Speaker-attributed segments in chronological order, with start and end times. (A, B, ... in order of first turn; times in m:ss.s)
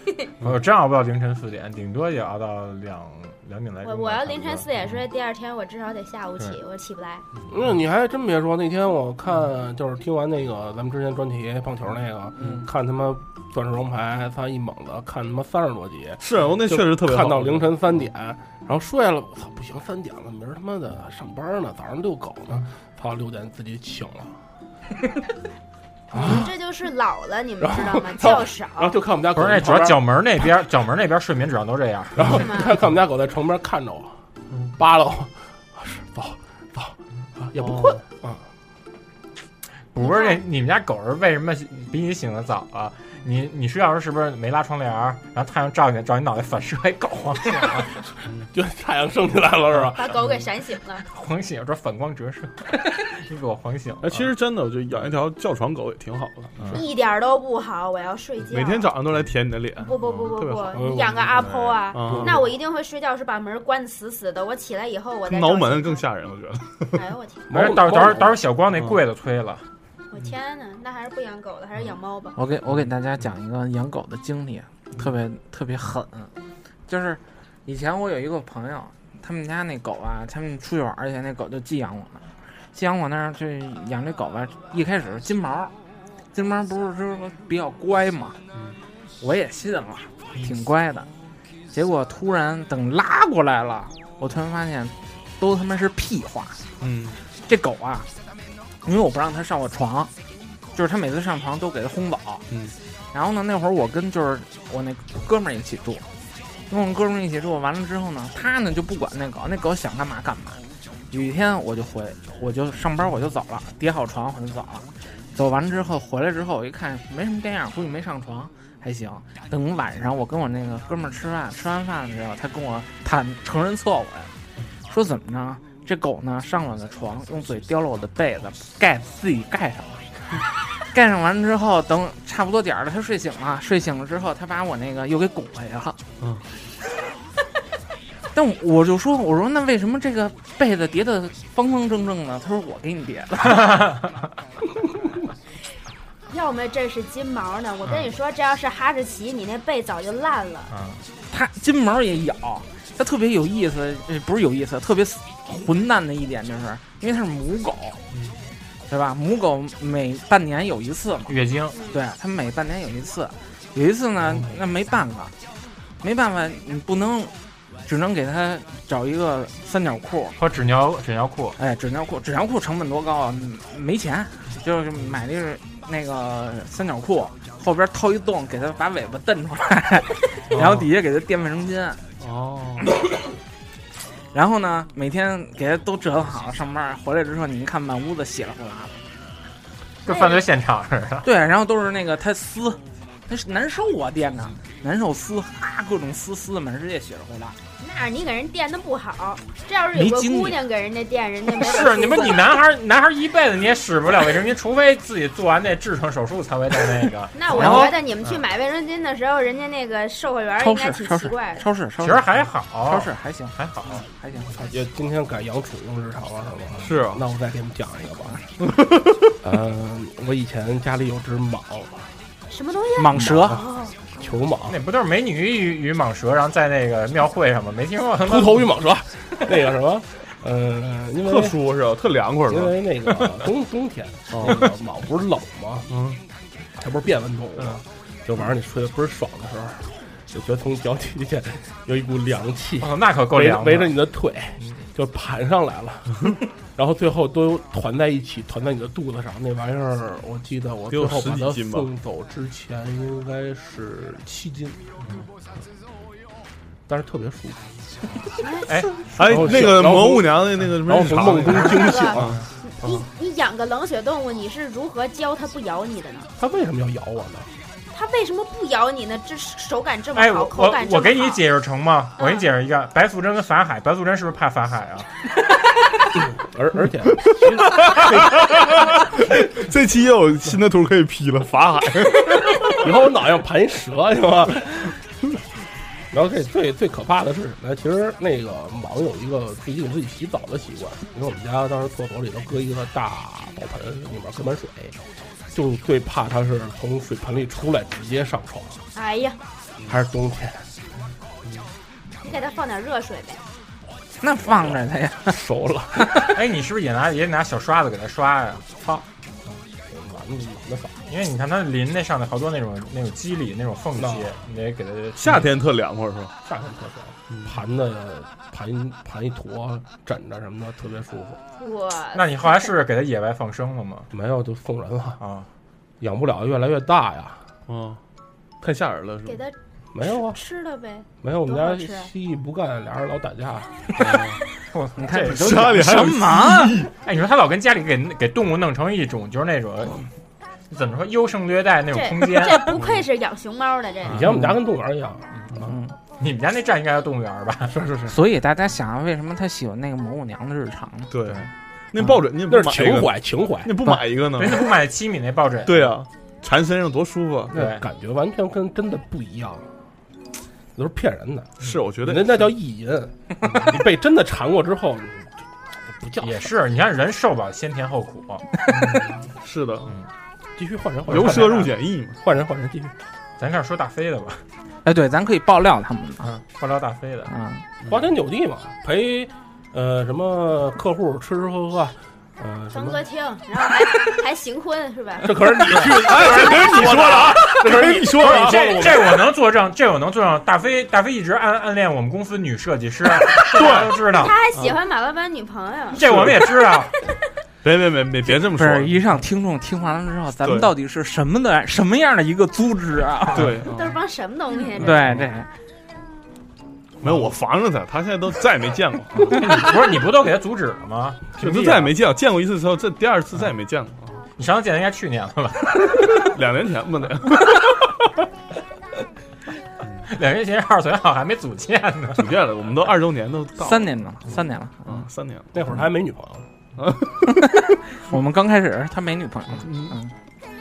0:00.4-0:04.8 A
0:03.8-0:07.2 B
0:07.5-0:24.4 C
0:16.2-0:17.9 D
0:26.1-0:26.5 C
0:26.1-0:29.0 B
0:27.6-0:30.1 C
0:29.3-0:32.4 A
0:32.1-0:34.2 C
0:32.2-0:32.8 B
0:34.8-0:38.4 C
0:37.6-0:38.0 D
0:39.9-0:47.9 A
0:40.0-0:40.4 B
0:48.5-0:50.2 C
0:49.8-0:51.0 B
0:51.0-0:54.3 A
0:54.0-0:56.8 D
0:56.7-0:58.9 B
0:58.5-1:02.5 D
0:59.8-1:06.0 B
1:00.7-1:01.5 C
1:02.0-1:02.5 C
1:05.2-1:07.0 D
1:06.9-1:07.5 B
1:07.5-1:08.4 C
1:07.5-1:09.6 A
1:08.7-1:09.0 D
1:10.1-1:12.4 B
1:12.3-1:16.3 E
1:16.9-1:25.7 E
1:26.3-1:28.4 E
1:29.2-1:31.1 E
1:31.7-1:36.6 E
1:36.8-1:37.2 D
1:37.4-1:38.1 E
1:38.8-1:40.1 E
1:40.7-1:42.4 E
1:42.5-1:42.7 D
1:43.1-1:46.0 E
1:46.7-1:50.6 E
1:51.1-2:04.3 E
2:04.9-2:10.4 E
2:10.9-2:16.0 E
2:18.3-2:23.8 E
2:23.4-2:24.3 A
2:26.3-2:30.7 B
2:30.7-2:31.0 A
2:31.3-2:38.0 E
2:38.9-2:41.4 E
2:41.3-2:41.8 A
2:41.7-2:42.0 B
2:41.9-2:45.3 E
2:46.0-2:47.3 E
2:47.8-2:50.4 E
2:50.4-2:51.6 A
2:51.6-3:02.0 E
3:00.5-3:00.9 D
3:02.2-3:02.9 D
3:04.3-3:09.0 E
3:10.0-3:11.3 A
3:10.1-3:10.4 B
3:11.2-3:17.6 E
3:17.8-3:22.6 B
3:19.9-3:20.6 E
3:21.6-3:28.4 A
3:27.3-3:31.6 B
3:27.5-3:27.9 E
3:30.6-3:32.3 E
3:32.0-3:34.0 A
3:32.8-3:34.6 E
3:34.6-3:38.4 C
3:36.8-3:37.2 D
3:38.7-3:39.1 D
3:39.4-3:42.1 C
3:42.5-3:44.2 B
3:43.0-3:43.6 E
3:43.2-3:43.6 C
3:44.2-3:44.8 C
3:44.7-3:48.6 A
3:48.2-3:51.6 C
3:51.2-3:53.4 D
3:52.5-3:55.9 C
3:54.3-3:54.7 D
3:55.9-3:56.2 D
3:56.8-4:14.8 C
4:02.8-4:03.9 A
4:04.6-4:04.9 A
4:10.9-4:11.9 D
4:16.9-4:17.6 C
4:18.4-4:18.8 B
4:18.6-4:19.0 A
4:19.0-4:22.4 C
4:19.0-4:22.4 D
4:21.5-4:26.3 B
4:26.4-4:27.5 C
4:27.9-4:31.4 B
4:30.1-4:35.1 A
4:32.2-4:32.5 B
4:36.1-4:38.6 C
4:37.7-4:42.8 D
4:42.8-4:44.9 C
4:46.1-4:55.0 C
4:55.5-4:58.8 C
4:58.9-4:59.4 B
4:59.8-5:00.7 C
5:02.2-5:03.4 B
5:04.2-5:05.4 E
5:04.4-5:06.4 C
5:06.2-5:09.0 A
5:09.9-5:11.0 C
5:11.1-5:15.5 A
5:14.0-5:14.3 C
5:15.2-5:16.3 D
5:16.4-5:21.4 C
5:21.6-5:22.7 B
5:22.1-5:24.1 A
5:24.1-5:25.2 C
5:25.2-5:25.5 A
5:26.0-5:27.4 C
5:27.7-5:28.0 D
5:28.6-5:29.4 D
5:29.2-5:32.1 B
5:29.9-5:30.4 C
5:31.2-5:33.9 C
5:34.0-5:34.4 D
5:34.7-5:35.7 A
5:35.0-5:36.8 E
5:35.3-5:36.9 D
5:36.9-5:40.1 A
5:40.7-5:42.8 A
5:41.9-5:44.3 B
5:42.7-5:43.0 D
5:44.0-5:45.7 C
5:44.3-5:44.6 E
5:45.6-5:45.9 E
5:46.2-5:47.8 A
5:47.7-5:48.2 C
5:48.1-5:51.1 E
5:51.1-5:54.7 D
5:52.5-5:54.0 C
5:54.4-5:55.9 A
5:55.6-5:57.6 D
5:57.5-5:59.7 C
5:57.5-5:57.8 A
6:00.7-6:06.5 C
6:01.6-6:02.5 D
6:06.2-6:08.4 A
6:08.7-6:10.0 D
6:10.6-6:12.9 C
6:11.1-6:12.2 D
6:13.4-6:14.4 A
6:14.8-6:16.3 E
6:16.2-6:17.3 A
6:17.3-6:17.6 E
6:17.8-6:18.1 D
6:17.9-6:23.0 C
6:22.7-6:27.3 B
6:25.2-6:29.2 C
6:25.7-6:29.1 D
6:28.2-6:34.4 A
6:33.5-6:34.0 D
6:33.7-6:36.7 B
6:35.9-6:36.9 A
6:36.0-6:36.5 D
6:37.6-6:39.1 D
6:38.3-6:43.5 E
6:40.4-6:40.7 D
6:43.3-6:44.0 D
6:43.5-6:45.1 B
6:44.8-6:45.5 E
6:44.8-6:45.3 D
6:47.0-6:49.7 D
6:49.3-6:51.9 A
6:51.4-6:54.2 D
6:54.4-6:56.3 A
6:56.2-6:57.6 D
7:00.0-7:02.3 A
7:02.2-7:03.9 D
7:03.6-7:05.0 E
7:04.8-7:05.5 D
7:05.5-7:06.5 C
7:06.8-7:07.2 D
7:07.9-7:10.1 E
7:09.6-7:10.0 D